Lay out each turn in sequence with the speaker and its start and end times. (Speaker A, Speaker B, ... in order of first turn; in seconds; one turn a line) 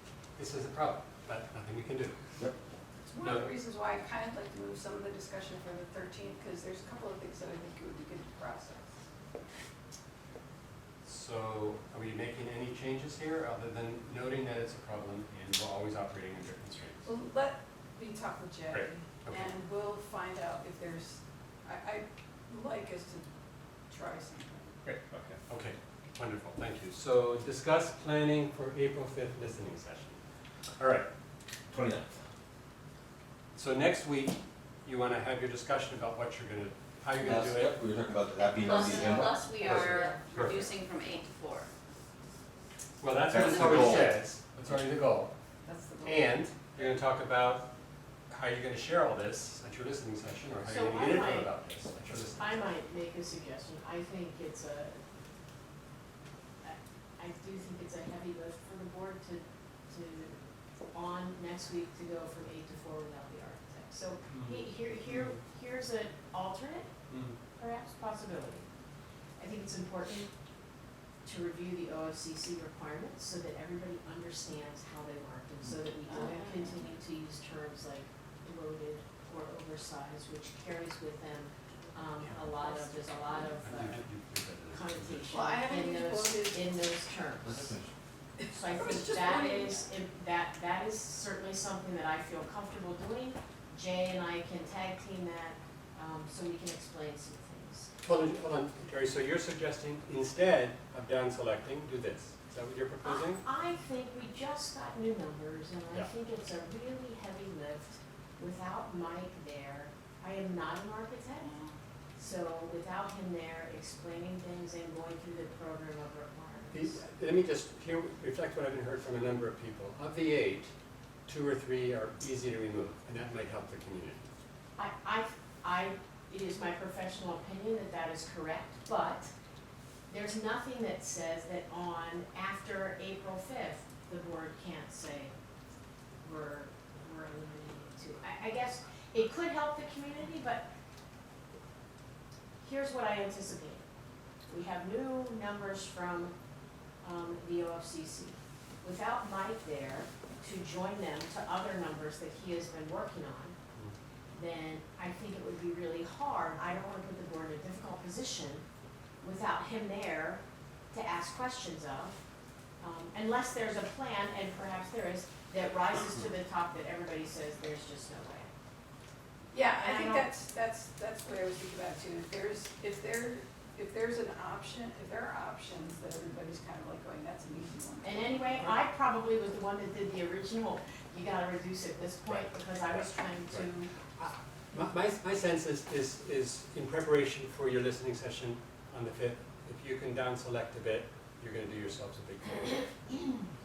Speaker A: 0.3-2.2
Speaker B: 3.1-8.8
Speaker A: 3.2-3.6
Speaker A: 11.0-17.1
Speaker B: 17.0-23.3
Speaker A: 18.7-19.5
Speaker B: 23.9-24.7
Speaker A: 24.8-30.2
Speaker A: 30.8-31.1
Speaker C: 31.7-32.2
Speaker A: 33.5-37.8
Speaker C: 37.2-40.0
Speaker D: 38.6-41.7
Speaker A: 39.6-40.7
Speaker B: 39.6-40.2
Speaker E: 39.9-40.2
Speaker A: 43.0-45.3
Speaker C: 43.3-44.1
Speaker B: 45.6-46.4
Speaker A: 46.0-47.6
Speaker A: 48.3-52.6
Speaker E: 50.6-51.5
Speaker E: 52.3-55.0
Speaker E: 56.6-60.4
Speaker E: 60.9-66.9
Speaker A: 64.3-65.4
Speaker A: 67.1-67.4
Speaker E: 67.5-68.7
Speaker E: 69.4-70.3
Speaker E: 71.2-84.0
Speaker B: 82.7-82.9
Speaker A: 83.6-85.3
Speaker E: 84.7-87.8
Speaker B: 85.3-86.7
Speaker C: 87.4-87.9
Speaker B: 88.4-89.9
Speaker E: 88.5-97.9
Speaker A: 98.0-103.4
Speaker E: 103.0-111.5
Speaker E: 112.2-117.0
Speaker A: 116.7-120.7
Speaker A: 121.3-124.2
Speaker E: 124.8-129.3
Speaker E: 130.1-135.3
Speaker E: 136.2-140.7
Speaker E: 142.6-143.8
Speaker E: 144.5-146.3
Speaker E: 147.0-153.6
Speaker E: 154.3-158.6
Speaker E: 159.2-162.2
Speaker E: 162.8-168.5
Speaker B: 169.5-178.8
Speaker E: 169.7-170.3
Speaker E: 178.0-183.9
Speaker A: 182.3-192.9